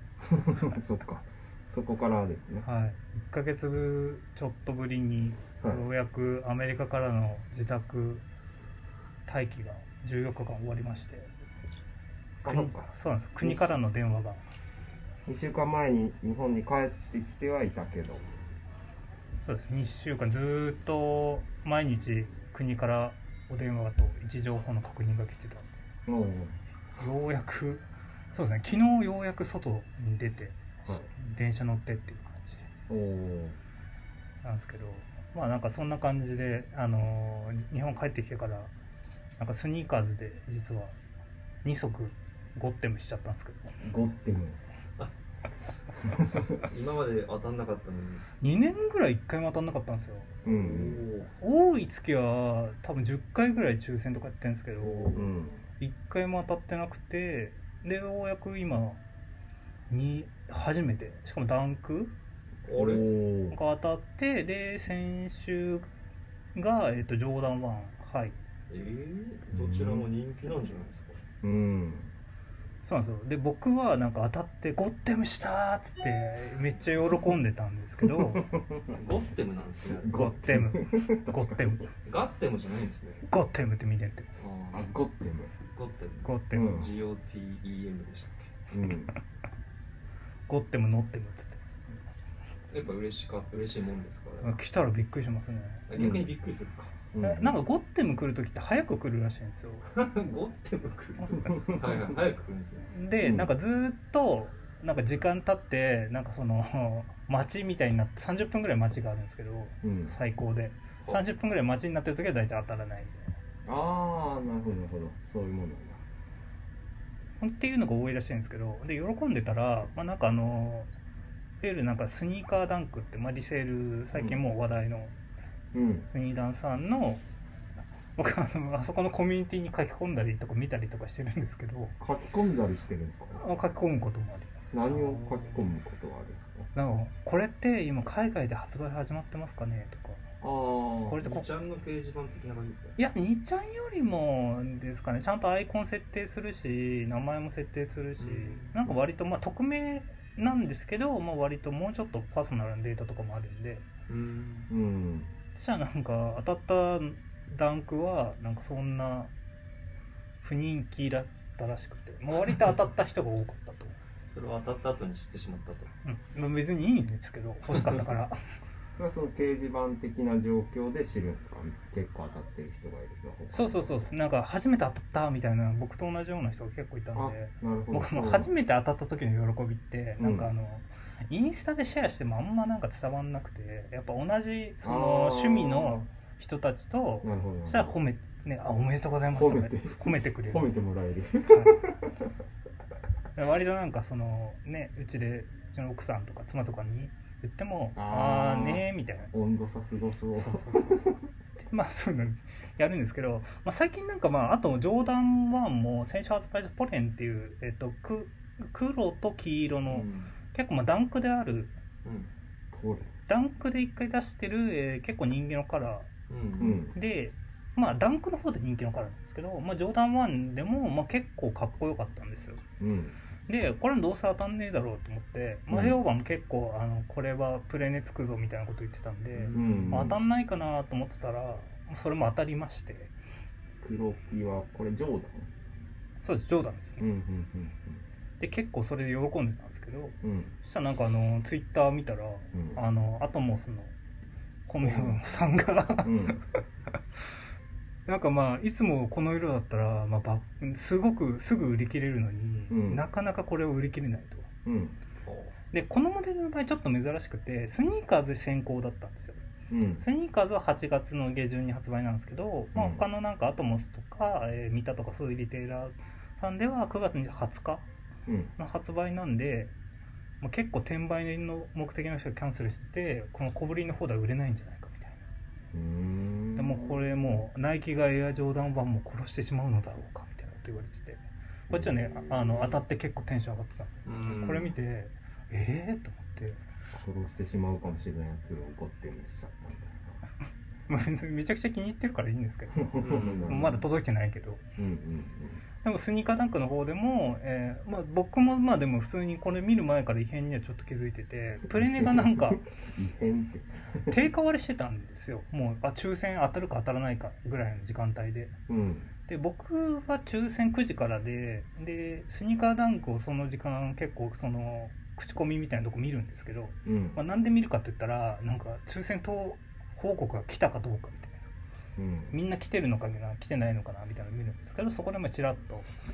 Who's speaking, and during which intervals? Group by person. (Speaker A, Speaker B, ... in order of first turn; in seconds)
Speaker A: 0.3-2.7, 5.6-5.8, 12.4-13.8, 15.3-18.2, 26.1-26.6, 32.9-33.6, 43.8-44.6, 50.4-51.0, 54.8-55.7, 62.7-63.6, 69.5-70.1, 71.4-72.1, 78.0-79.0, 80.0-81.9, 84.7-85.6, 86.5-86.9, 88.7-89.2, 96.0-96.3, 97.1-97.6, 103.2-103.5, 109.8-110.1, 113.7-116.0, 125.7-126.1, 132.0-133.4, 134.7-136.7, 140.4-141.3, 154.7-155.3, 169.0-174.1, 177.2-178.5, 180.2-180.5, 184.8-186.1, 187.2-187.9, 189.3-192.1, 197.9-201.2, 212.7-213.1, 216.6-217.0, 222.8-223.2, 225.7-226.0, 229.5-230.2, 233.8-235.5, 237.0-238.0, 240.2-240.6, 242.5-242.8, 244.8-245.4, 246.0-246.4, 252.7-253.1, 254.7-255.0, 259.7-260.0, 262.8-263.1, 268.3-268.5, 275.7-277.4, 281.7-282.8, 286.9-290.2, 292.8-293.8, 294.8-295.6, 301.8-304.2, 308.7-309.1, 316.9-317.2, 322.0-322.4
Speaker B: 2.6-8.2, 9.3-11.3, 12.4-14.4, 19.4-25.7, 27.0-32.7, 34.4-38.7, 39.4-41.0, 41.6-43.7, 48.4-50.4, 51.4-55.3, 55.8-59.0, 59.9-62.1, 63.5-65.9, 66.5-68.3, 72.8-78.5, 80.1-81.9, 83.3-84.4, 86.2-86.8, 90.5-92.0, 94.4-95.9, 97.2-99.9, 102.9-113.4, 117.4-120.9, 121.6-125.1, 126.1-127.2, 128.2-132.0, 133.4-135.0, 136.7-140.2, 141.1-141.5, 143.0-153.9, 155.6-159.3, 160.4-164.0, 166.0-168.4, 173.5-190.7, 191.5-191.8, 193.3-199.3, 200.3-211.7, 213.3-216.1, 216.9-222.6, 223.5-233.1, 236.2-237.1, 238.4-243.9, 244.7-246.4, 248.1-254.5, 255.7-259.4, 260.0-267.9, 268.6-269.7, 270.4-275.2, 276.6-286.6, 290.9-294.6, 295.8-302.6, 304.1-308.6, 309.3-321.4, 322.3-325.9
Speaker C: 46.1-48.2, 50.5-51.4, 62.7-63.1, 68.7-71.2, 78.9-80.2, 82.0-83.3, 84.4-84.9, 85.7-88.5, 92.7-94.6, 95.9-96.9, 99.9-102.9, 124.1-124.4, 141.2-143.0, 148.2-148.9, 154.1-154.7, 164.3-165.9, 209.9-210.3, 212.1-212.3, 216.3-216.8, 229.4-229.8, 255.2-255.6, 284.1-284.8, 293.0-293.6